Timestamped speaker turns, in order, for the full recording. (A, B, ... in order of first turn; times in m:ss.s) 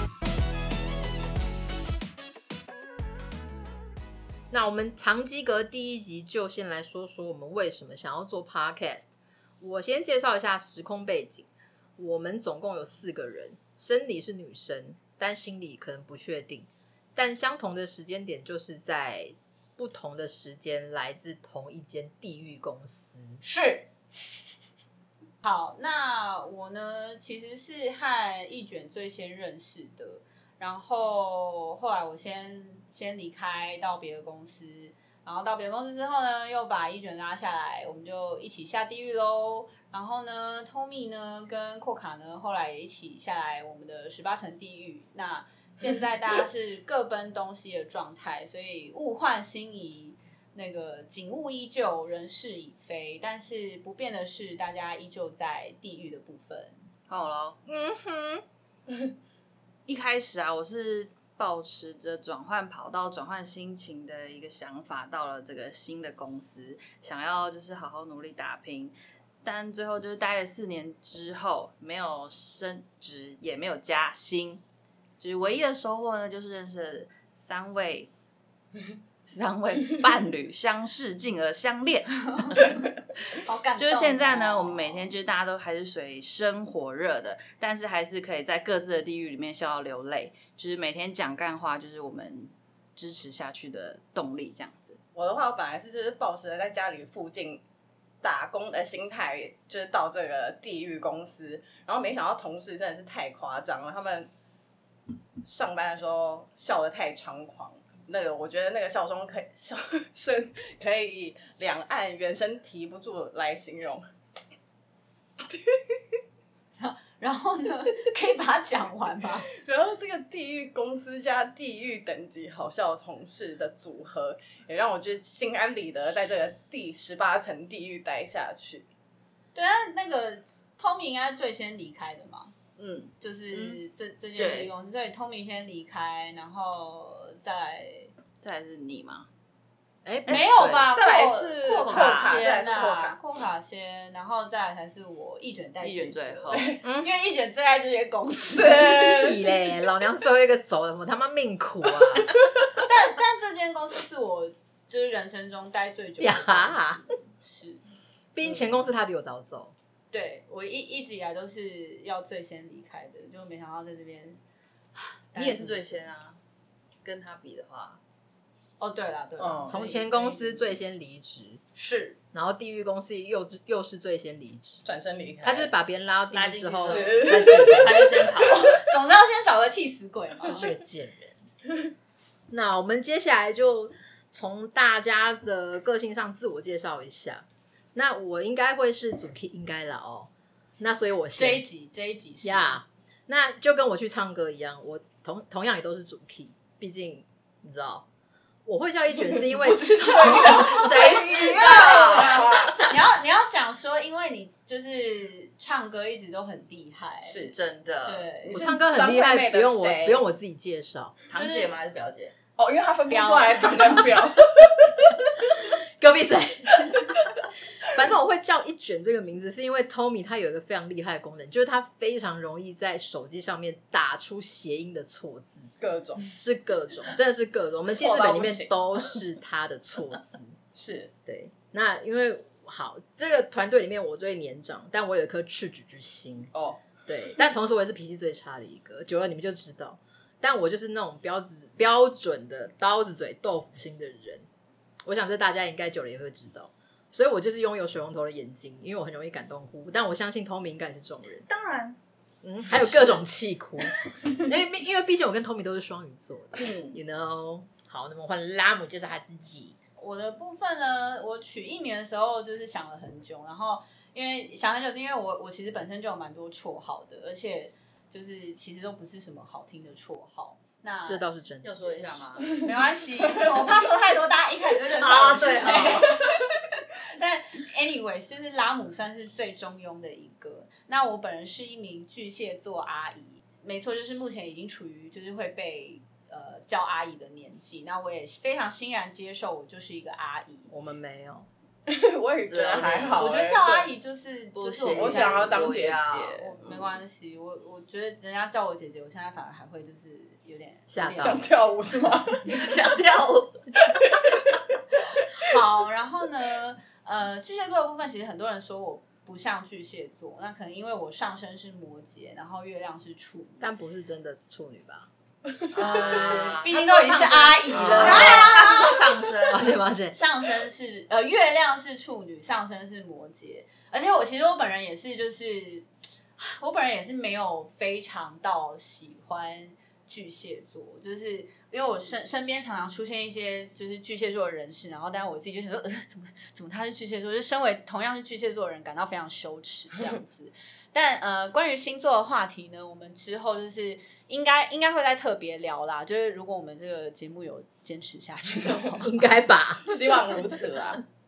0:04.5-0:09.1 A
0:09.6-0:23.4 A
0:23.4-0:23.9 B
0:25.4-0:56.8 B
0:57.1-0:57.6 C
0:57.7-0:58.4 A
0:59.9-1:14.6 C
1:15.2-1:18.1 C
1:19.3-1:22.8 C
1:23.3-1:25.1 B
1:23.8-1:35.0 C
1:35.2-1:37.6 D
1:38.2-1:44.3 D
1:45.4-1:54.0 D
1:56.7-1:59.5 B
1:59.6-2:08.9 D
2:09.5-2:12.5 B
2:12.8-2:13.8 C
2:13.2-2:18.1 B
2:14.4-2:14.7 C
2:18.4-2:19.3 C
2:20.0-2:20.9 A
2:20.3-2:22.7 C
2:20.3-2:29.0 B
2:20.9-2:23.2 D
2:25.8-2:26.7 C
2:26.5-2:26.8 D
2:26.8-2:27.1 A
2:28.5-2:29.4 D
2:29.0-2:32.3 A
2:32.8-2:37.8 B
2:36.2-2:37.0 A
2:38.4-2:39.7 A
2:38.4-2:38.9 C
2:40.1-2:44.4 B
2:45.3-2:45.9 B
2:45.4-2:46.4 C
2:47.0-2:48.0 C
2:48.8-2:50.8 B
2:49.4-2:49.7 D
2:49.7-2:51.6 A
2:51.8-2:52.2 B
2:52.3-2:54.8 A
2:54.8-2:55.7 D
2:55.4-2:58.3 A
2:56.3-2:58.8 C
2:56.8-2:58.0 D
2:58.6-3:00.7 B
3:00.5-3:01.4 A
3:02.5-3:11.6 A
3:11.3-3:12.8 B
3:12.4-3:18.1 A
3:18.7-3:21.7 A
3:19.4-3:22.8 D
3:20.2-3:22.7 C
3:22.9-3:27.4 B
3:27.2-3:27.6 D
3:27.4-3:28.3 C
3:28.0-3:28.6 B
3:28.5-3:31.2 A
3:28.5-3:30.2 D
3:31.3-3:32.4 C
3:31.3-3:31.8 B
3:32.6-3:34.7 D
3:33.1-3:34.2 B
3:34.7-3:35.0 A
3:35.5-3:37.2 A
3:37.8-3:45.7 A
3:45.8-3:46.4 D
3:46.3-3:50.6 A
3:47.9-3:49.2 D
3:50.8-3:51.1 D
3:51.3-3:56.5 A
3:56.5-3:56.8 D
3:57.1-4:04.5 A
4:05.0-4:11.5 A
4:11.4-4:12.0 C
4:12.4-4:19.8 A
4:16.6-4:17.0 C
4:20.0-4:31.3 B
4:31.1-4:31.8 A
4:31.6-4:32.6 C
4:31.8-4:36.5 B
4:35.0-4:36.2 C
4:37.1-4:50.7 B
4:50.7-4:51.5 A
4:51.9-4:53.9 D
4:52.5-4:53.2 C
4:53.2-4:55.8 B
4:54.5-4:56.4 C
4:55.0-4:57.0 D
4:56.3-5:01.4 B
5:00.9-5:01.4 A
5:01.2-5:02.4 D
5:02.5-5:03.5 C
5:05.4-5:13.7 B
5:13.6-5:15.1 A
5:15.7-5:16.9 C
5:15.7-5:19.0 B
5:15.9-5:18.8 A
5:17.7-5:19.8 C
5:19.5-5:20.2 A
5:20.1-5:49.2 B
5:49.0-5:50.0 A
5:49.9-5:51.0 D